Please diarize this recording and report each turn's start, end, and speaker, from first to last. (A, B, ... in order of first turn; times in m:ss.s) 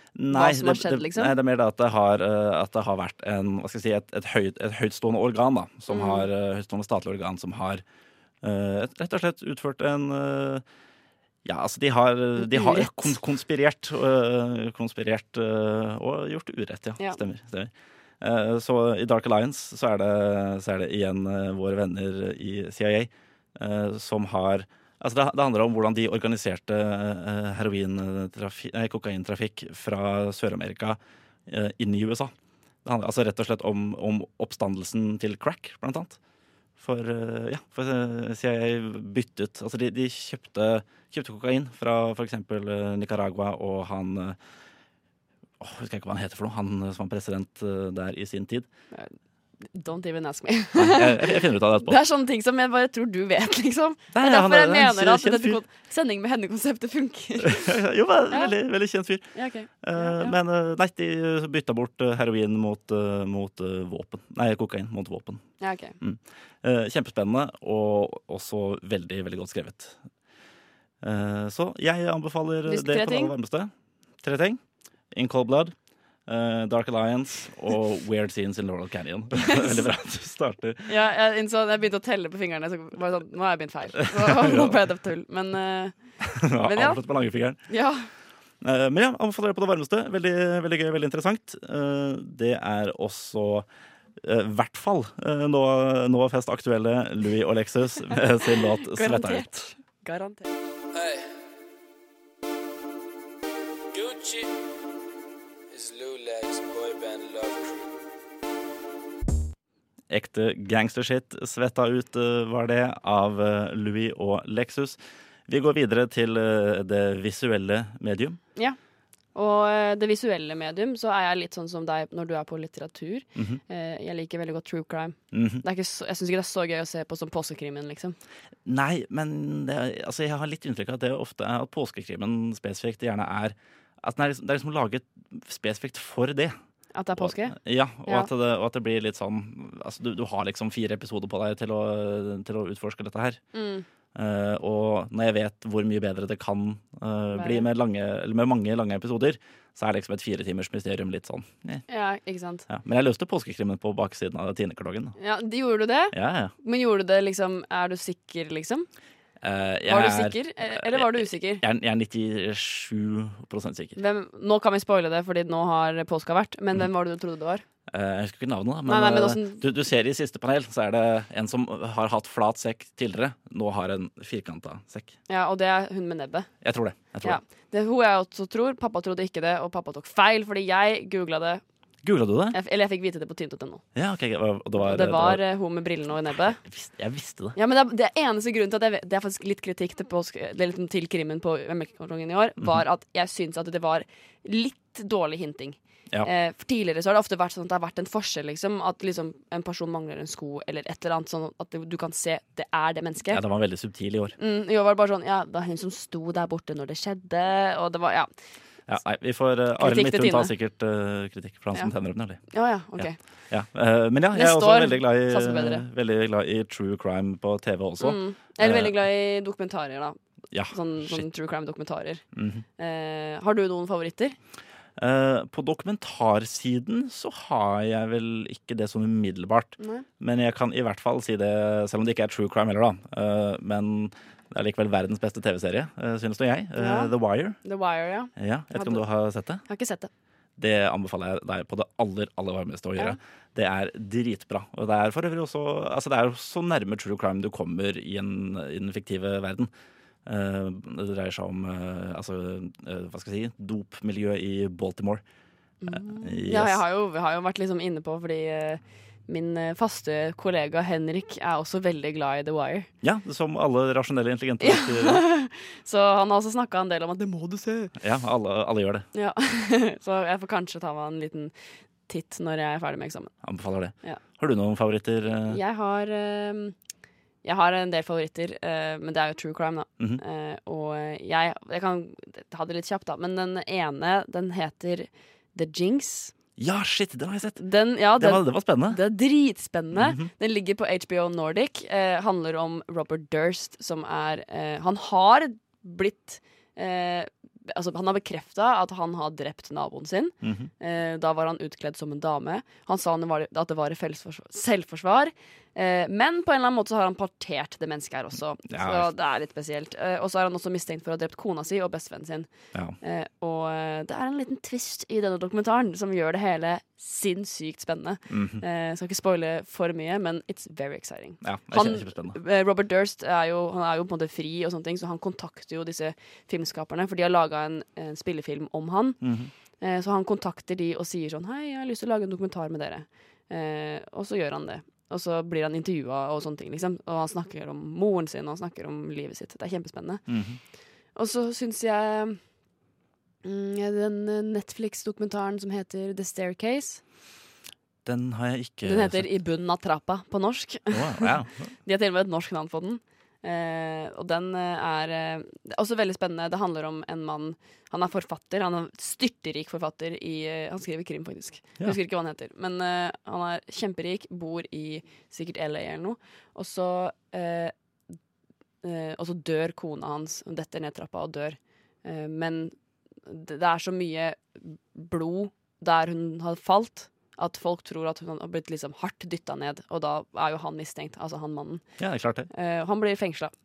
0:00.1-0:07.8 A
0:00.3-0:01.3 B
0:05.9-0:06.3 B
0:08.4-0:10.6 A
0:11.4-0:32.3 A
0:12.4-0:13.2 B
0:32.8-0:36.2 A
0:36.8-0:44.4 A
0:45.6-0:48.7 A
0:49.6-0:57.8 B
0:50.8-0:52.0 A
0:54.1-0:55.6 A
0:57.4-0:59.3 A
0:59.3-1:00.4 B
0:59.8-1:05.4 A
1:05.6-1:06.0 B
1:06.0-1:10.0 A
1:11.0-1:13.7 A
1:12.7-1:13.3 B
1:14.2-1:14.6 A
1:15.1-1:15.7 A
1:16.3-1:20.9 A
1:19.4-1:19.9 B
1:20.9-1:25.9 B
1:24.1-1:24.8 A
1:26.2-1:27.6 A
1:26.6-1:27.0 B
1:27.7-1:28.1 B
1:28.6-1:33.6 A
1:34.2-1:39.7 A
1:38.1-1:40.6 B
1:40.9-1:41.3 C
1:43.9-1:44.5 C
1:45.7-1:47.9 C
1:50.1-1:58.4 A
1:59.3-2:08.2 B
2:03.4-2:03.6 A
2:05.3-2:05.6 A
2:08.6-2:16.5 A
2:16.9-2:18.3 B
2:17.2-2:23.4 A
2:23.5-2:23.8 B
2:24.1-2:31.8 A
2:27.3-2:27.7 B
2:31.9-2:32.7 B
2:32.7-2:35.1 A
2:35.2-2:38.9 B
2:36.1-2:36.5 A
2:39.4-2:44.0 A
2:39.9-2:41.6 B
2:44.0-2:47.6 B
2:47.9-2:55.2 A
2:48.8-2:49.6 B
2:55.3-2:56.5 B
2:56.6-2:57.4 A
2:57.2-3:01.6 B
3:02.0-3:02.6 A
3:02.5-3:03.8 B
3:03.9-3:05.4 A
3:04.8-3:06.6 B
3:06.6-3:07.6 A
3:07.5-3:23.4 B
3:23.3-3:24.4 A
3:24.4-3:28.3 B
3:28.9-3:32.4 A
3:29.8-3:30.5 B
3:32.5-3:33.2 B
3:33.0-3:39.0 A
3:34.3-3:35.8 B
3:38.0-3:40.2 B
3:40.5-3:41.2 A
3:40.7-3:42.2 B
3:42.3-3:42.6 A
3:42.8-3:44.4 B
3:45.0-3:57.6 A
3:49.8-3:50.0 B
3:56.8-3:59.0 B
3:58.4-3:59.6 A
3:59.7-4:00.1 B
4:00.6-4:09.7 A
4:10.2-4:15.2 A
4:15.8-4:22.9 B
4:15.9-4:16.8 A
4:23.0-4:25.2 A
4:24.6-4:27.9 B
4:28.0-4:29.0 A
4:29.1-4:31.5 B
4:32.1-4:33.3 B
4:33.4-4:35.6 A
4:35.5-4:36.8 B
4:37.4-4:46.3 B
4:46.6-4:47.6 A
4:47.6-5:12.5 B
4:48.2-4:49.0 A
4:49.9-4:50.3 A
5:00.4-5:00.7 A
5:08.7-5:09.1 A
5:13.0-5:29.2 B
5:18.3-5:18.6 A
5:21.4-5:22.4 A
5:29.2-5:29.5 A
5:29.8-5:40.2 B
5:40.3-5:40.6 A
5:41.1-5:42.4 B
5:43.4-5:47.0 B
5:48.0-5:49.3 A
5:48.8-6:07.7 B
5:50.9-5:51.7 A
6:08.8-6:12.7 B
6:13.2-6:21.8 B
6:22.0-6:22.5 A
6:22.5-6:23.5 B